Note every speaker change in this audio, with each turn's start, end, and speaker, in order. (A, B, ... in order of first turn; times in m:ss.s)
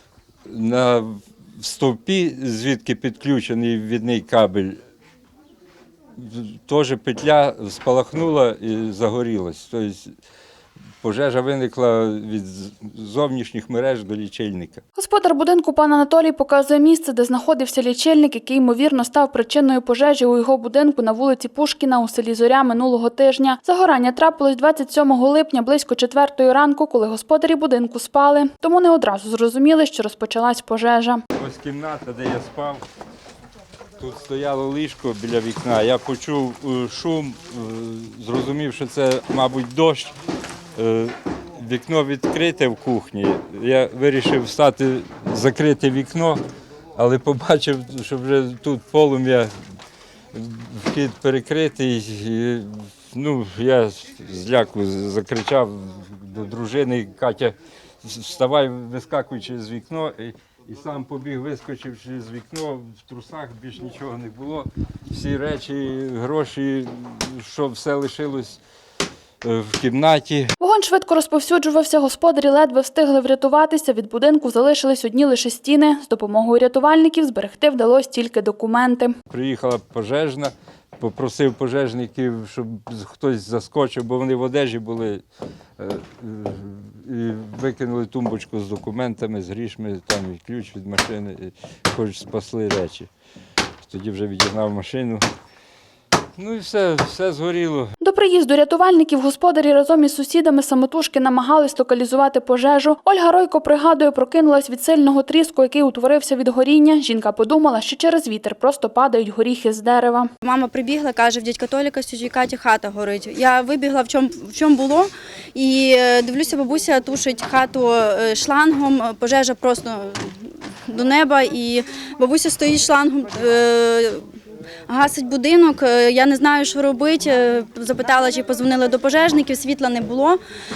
0:00.5-0:04.8 A
0:06.2-0:10.1 A
0:11.0-0:14.8 A
0:15.0-0:31.2 B
0:31.4-0:32.8 A
0:34.0-0:40.2 A
0:40.8-0:46.4 A
0:47.0-0:49.5 A
0:50.3-1:08.6 A
1:09.4-1:10.5 A
1:10.6-1:19.1 B
1:19.3-1:25.2 A
1:25.8-1:33.1 A
1:33.8-1:35.2 A
1:36.4-1:38.0 A
1:38.0-1:50.3 B
1:50.4-2:04.2 C
2:04.9-2:10.4 C